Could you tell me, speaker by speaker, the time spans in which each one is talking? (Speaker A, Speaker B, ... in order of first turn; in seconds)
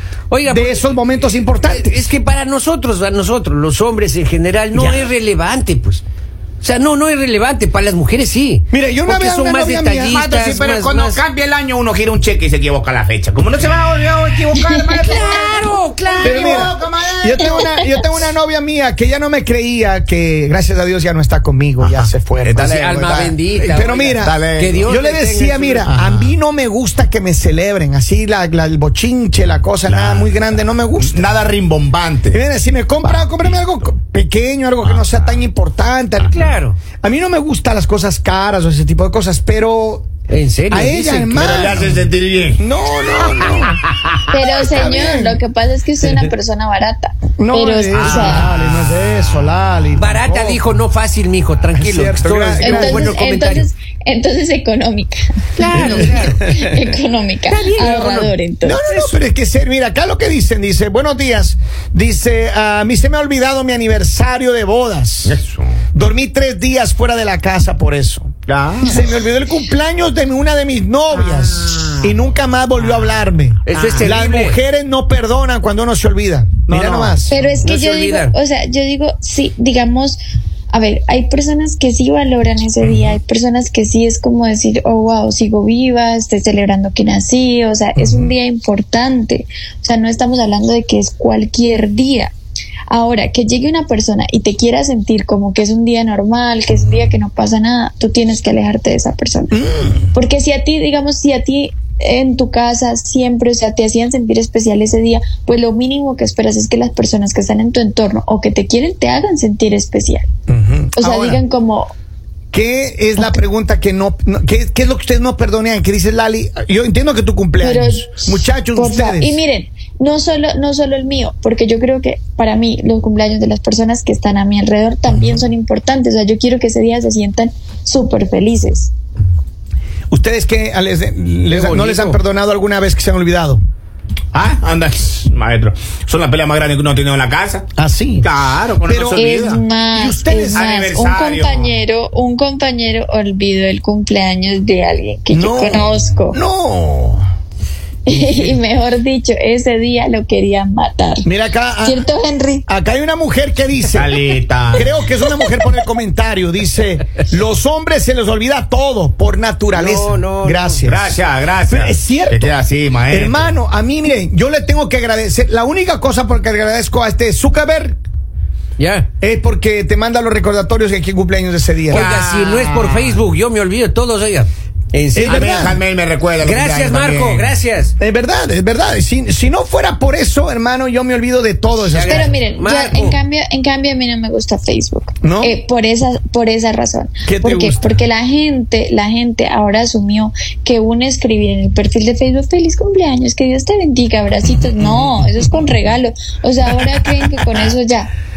Speaker A: 0.3-6.0, 6.6-11.2, 14.9-16.8, 22.6-25.9, 36.3-36.8, 40.3-41.5, 48.0-48.4, 50.0-53.7, 55.5-56.4, 57.5-59.2, 73.7-74.6, 77.6-78.3, 131.5-132.2, 159.7-160.9, 168.8-169.1, 171.9-175.6, 176.4-177.9, 181.8-183.2
Speaker B: 0.4-2.1, 4.7-5.1, 8.7-10.2, 16.2-22.7, 23.7-31.4, 32.3-36.5, 37.0-40.1, 40.7-42.0, 42.5-43.8, 44.5-45.4, 47.4-50.6, 51.7-53.2, 55.7-56.9, 58.6-65.4, 65.9-77.5, 88.0-88.3, 99.5-100.1, 110.5-111.4, 112.5-119.4, 125.1-125.5, 130.1-133.6, 137.8-138.3, 138.8-139.2, 139.9-140.6, 145.3-147.2, 148.1-148.6, 151.2-152.1, 152.7-154.2, 154.7-162.5, 163.1-168.0, 169.2-172.1, 175.2-175.8, 178.0-182.4, 185.2-185.6, 187.2-188.0, 194.7-195.6, 196.6-197.8
Speaker C: 10.1-17.7, 21.8-24.9, 25.8-26.4, 29.8-32.4, 33.0-33.7, 34.8-35.4, 41.3-42.6, 48.0-49.8, 65.2-65.8, 68.5-69.1, 71.2-72.1, 73.7-74.1, 76.7-77.2, 134.3-137.7, 138.2-139.6, 140.5-141.7, 153.9-155.0, 160.8-163.5, 171.9-173.2, 175.2-177.5
Speaker D: 14.6-15.2, 17.4-18.1, 44.3-48.5, 52.6-58.8, 77.3-92.3, 92.9-99.5, 100.1-110.3, 111.0-111.9, 117.6-128.9, 139.1-146.4, 148.1-151.2, 151.8-152.7, 182.1-198.1